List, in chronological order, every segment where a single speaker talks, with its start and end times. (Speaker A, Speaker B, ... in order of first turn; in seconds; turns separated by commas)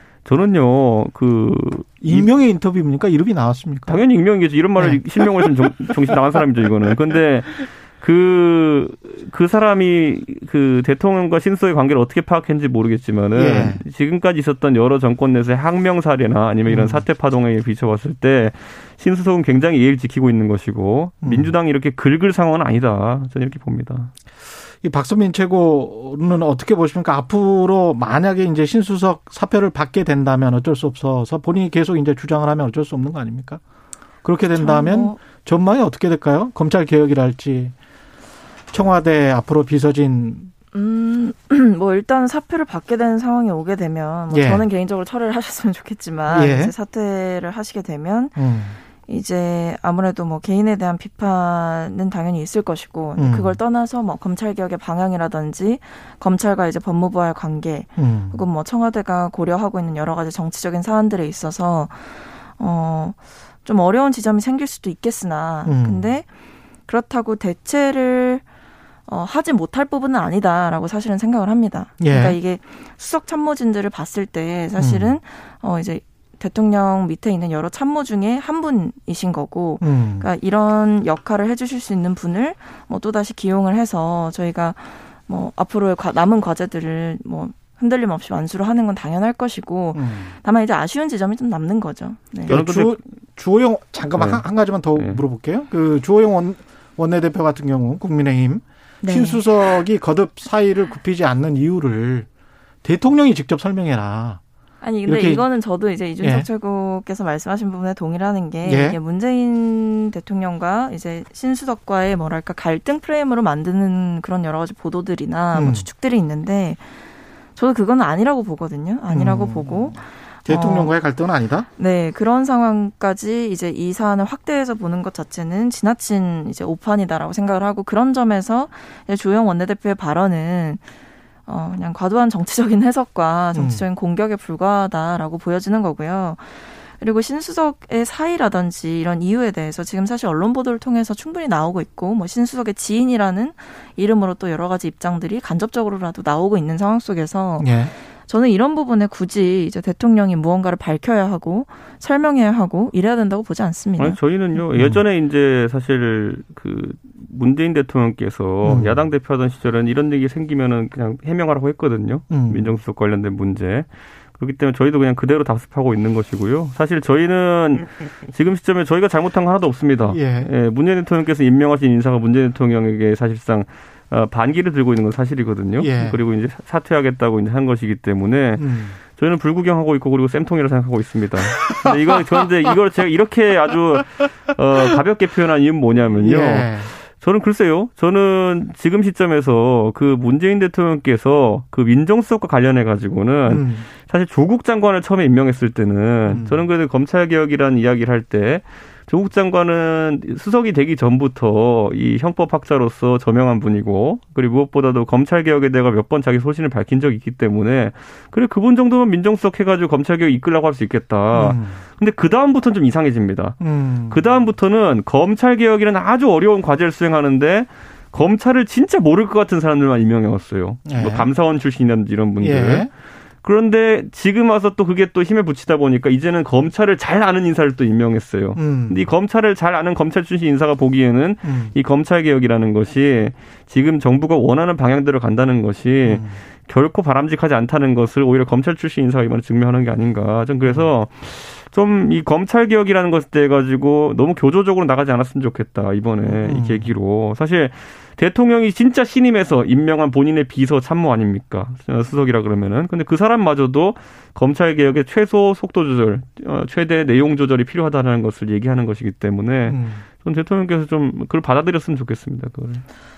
Speaker A: 0.2-2.3, Speaker B: 2.0-4.0, Speaker A: 3.9-24.1, Speaker B: 4.8-5.8, Speaker B: 13.3-13.8, Speaker B: 16.7-17.0, Speaker B: 21.2-21.5, Speaker B: 24.8-33.6, Speaker B: 34.2-37.7, Speaker C: 34.5-35.2, Speaker B: 38.7-40.5, Speaker C: 40.7-48.4, Speaker B: 44.3-44.6, Speaker B: 46.3-46.7, Speaker B: 48.4-48.8, Speaker C: 49.0-66.3, Speaker B: 53.1-53.6, Speaker B: 58.0-58.4, Speaker B: 65.6-66.1, Speaker C: 66.8-68.5, Speaker C: 69.0-92.6, Speaker B: 72.0-72.4, Speaker B: 74.8-75.2, Speaker B: 79.8-80.3, Speaker B: 89.9-90.3, Speaker B: 92.5-102.3, Speaker A: 92.5-93.0, Speaker A: 94.1-94.4, Speaker A: 94.9-95.2, Speaker C: 99.0-99.4, Speaker B: 102.8-104.4, Speaker C: 104.8-117.0, Speaker B: 105.0-105.5, Speaker B: 106.2-106.5, Speaker B: 108.6-109.0, Speaker B: 115.5-115.9, Speaker C: 117.5-121.0, Speaker B: 119.1-121.7, Speaker C: 121.8-130.9, Speaker C: 131.4-154.2, Speaker B: 133.5-133.8, Speaker B: 147.6-147.9, Speaker A: 154.0-222.9, Speaker B: 154.6-155.0, Speaker B: 158.6-159.1, Speaker B: 162.3-162.7, Speaker B: 170.1-170.5, Speaker B: 175.8-176.2, Speaker B: 178.6-179.0, Speaker B: 181.6-181.9, Speaker B: 186.1-186.9, Speaker B: 193.4-193.8, Speaker B: 196.2-196.6, Speaker B: 211.3-211.8, Speaker B: 213.6-214.2, Speaker B: 220.8-221.3, Speaker B: 222.4-222.9, Speaker A: 223.4-262.8, Speaker B: 228.6-229.1, Speaker B: 231.4-231.7, Speaker B: 236.0-236.4, Speaker B: 246.3-246.9, Speaker B: 259.6-260.0